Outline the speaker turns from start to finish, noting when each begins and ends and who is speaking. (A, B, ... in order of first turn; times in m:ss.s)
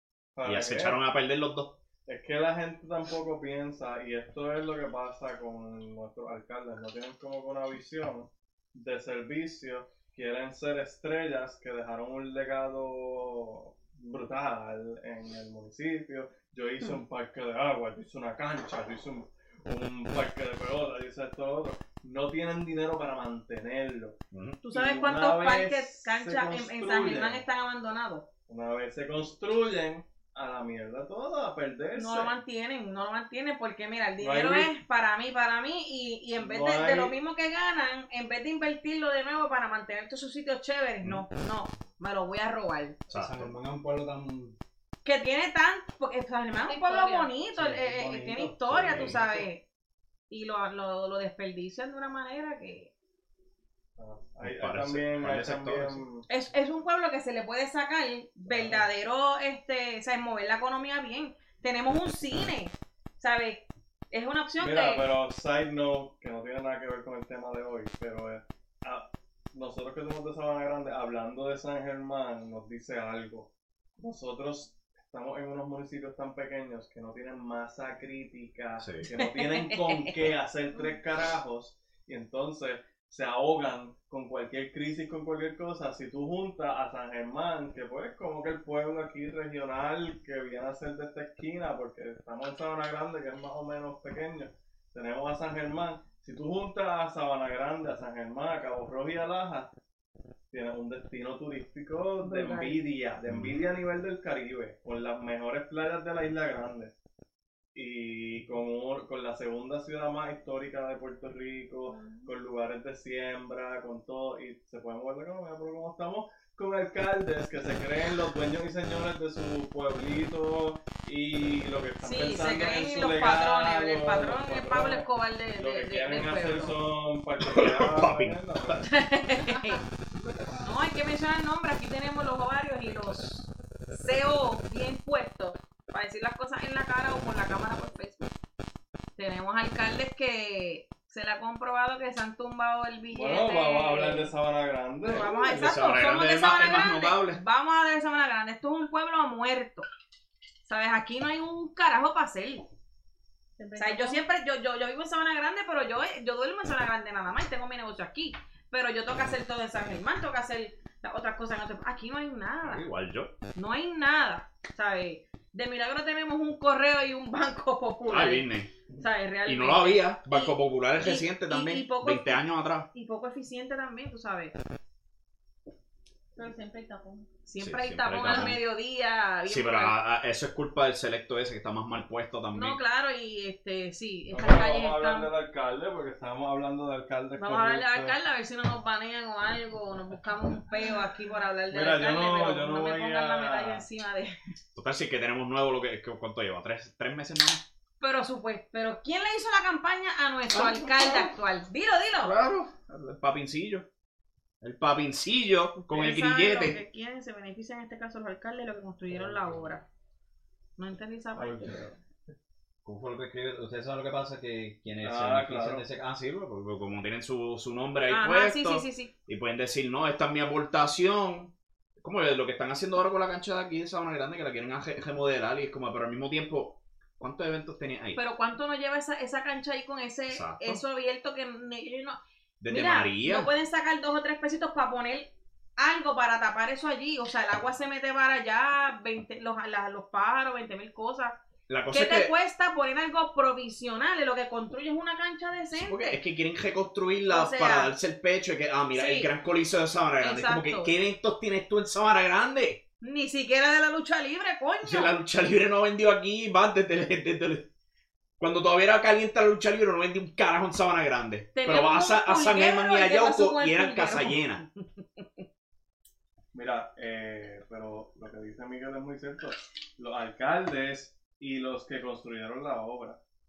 0:00.4-0:01.0 A
0:00.4-0:01.8 B
0:02.0-0:24.2 A
0:24.3-0:24.6 B
0:24.6-0:28.2 C
0:24.7-0:27.4 A
0:28.5-0:32.3 A
0:31.9-0:43.0 C
0:34.2-0:34.7 A
0:36.4-0:37.1 A
0:43.1-0:43.5 B
0:43.1-0:44.6 D
0:45.0-0:49.6 C
0:46.6-0:47.3 E
0:47.5-0:49.4 D
0:48.7-0:49.2 B
0:50.3-0:52.9 C
0:54.0-0:56.3 A
0:54.4-0:56.0 B
0:56.3-1:05.0 C
0:58.4-0:58.9 A
1:04.6-1:39.7 A
1:18.8-1:19.1 B
1:19.2-1:20.3 C
1:40.5-1:47.0 A
1:42.2-1:42.8 C
1:43.3-1:43.6 B
1:47.7-2:09.0 A
1:51.9-1:52.3 E
2:02.0-2:06.8 C
2:07.4-2:08.9 B
2:08.8-2:09.8 C
2:09.5-2:09.8 E
2:10.6-2:13.3 C
2:13.0-2:13.4 B
2:13.9-2:18.3 C
2:19.2-2:24.3 C
2:23.1-2:25.5 A
2:25.0-2:29.8 C
2:25.4-2:27.4 B
2:30.6-2:32.6 C
2:33.6-2:34.2 E
2:33.8-2:42.9 C
2:42.6-2:43.3 B
2:43.6-2:54.6 C
2:48.1-2:48.8 B
2:49.4-2:52.9 B
2:56.4-2:57.3 E
2:57.4-3:00.0 C
2:57.6-2:58.6 B
2:59.4-3:02.8 B
3:02.5-3:05.3 C
3:04.3-3:08.2 A
3:07.4-3:14.4 C
3:11.7-3:13.8 A
3:14.8-3:17.6 B
3:18.0-3:22.3 C
3:20.5-3:21.3 B
3:22.2-3:23.9 B
3:24.6-3:26.8 B
3:25.8-3:29.8 C
3:30.8-3:31.8 C
3:31.4-3:32.0 A
3:32.8-3:48.2 B
3:35.0-3:35.8 A
3:38.1-3:39.1 C
3:48.2-4:06.2 C
3:50.3-3:50.8 B
3:52.6-3:53.5 B
4:01.7-4:02.3 B
4:05.8-4:12.8 B
4:07.3-4:07.9 C
4:08.9-4:09.3 C
4:10.2-4:10.9 C
4:13.0-4:15.1 C
4:14.8-4:17.7 B
4:18.4-4:24.6 B
4:21.5-4:25.4 C
4:26.5-4:33.2 A